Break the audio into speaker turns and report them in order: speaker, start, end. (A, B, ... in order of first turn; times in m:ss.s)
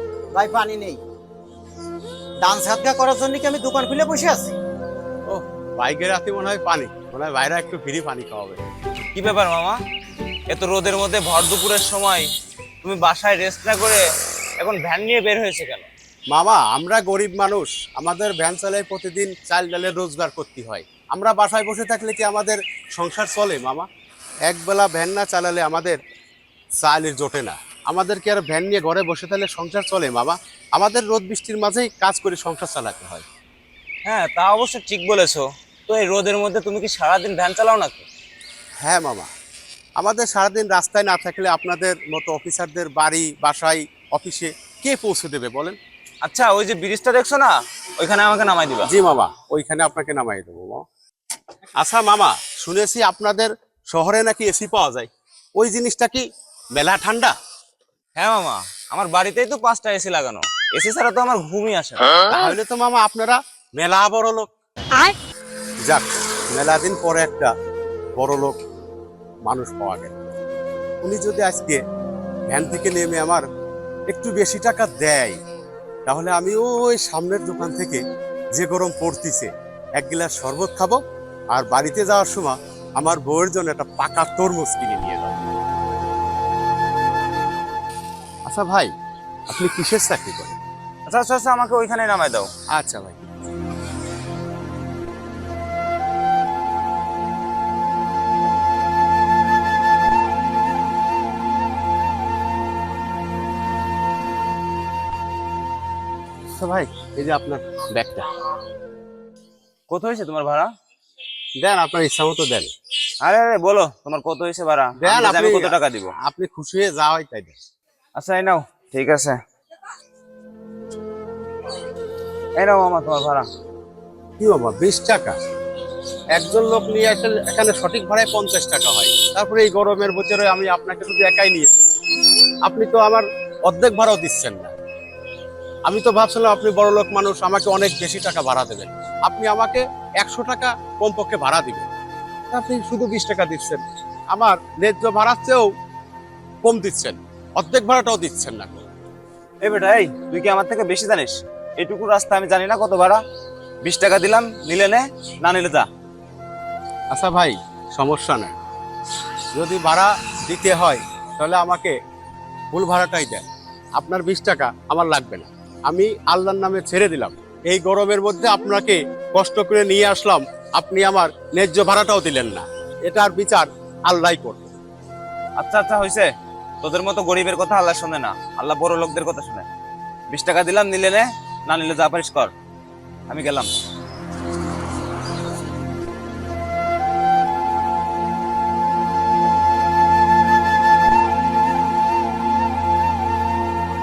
0:00.3-0:01.0 A
0:02.4-0:04.5 A
0:05.3-0:08.6 B
0:09.2-0:09.8 C
0:10.5-0:12.3 C
0:12.8-0:14.0 C
0:14.6-0:15.9 C
0:16.3-0:23.9 B
0:24.5-0:26.0 B
0:26.8-0:33.3 B
0:34.1-0:38.1 C
0:38.8-0:39.3 B
0:40.0-0:45.8 B
0:46.2-0:48.9 C
0:48.9-0:50.8 B
0:51.8-0:57.4 B
0:58.2-1:02.2 C
1:02.3-1:04.5 B
1:05.9-1:07.5 B
1:08.2-1:08.6 B
1:09.5-1:10.2 B
1:11.0-1:11.8 B
1:12.5-1:13.4 B
1:14.1-1:15.4 B
1:16.1-1:18.0 B
1:18.5-1:21.0 B
1:21.5-1:25.4 B
1:28.5-1:28.9 B
1:29.5-1:30.6 B
1:31.1-1:32.5 C
1:32.7-1:33.3 B
1:46.6-1:48.3 B
1:49.9-1:50.7 C
1:51.6-1:52.7 B
1:53.2-1:56.1 C
1:55.0-1:57.6 B
1:58.2-1:59.4 C
2:02.6-2:03.5 C
2:04.4-2:05.4 B
2:06.3-2:11.8 B
2:12.6-2:14.8 B
2:15.9-2:21.9 B
2:22.5-2:23.8 B
2:24.3-2:25.7 B
2:26.6-2:28.9 B
2:29.6-2:33.2 C
2:33.8-2:35.9 C
2:37.1-2:38.6 B
2:39.5-2:42.0 B
2:42.7-2:43.5 B
2:44.0-2:54.8 B
2:55.6-2:56.3 C
2:56.8-2:59.7 C
3:00.3-3:02.5 C
3:03.3-3:03.7 C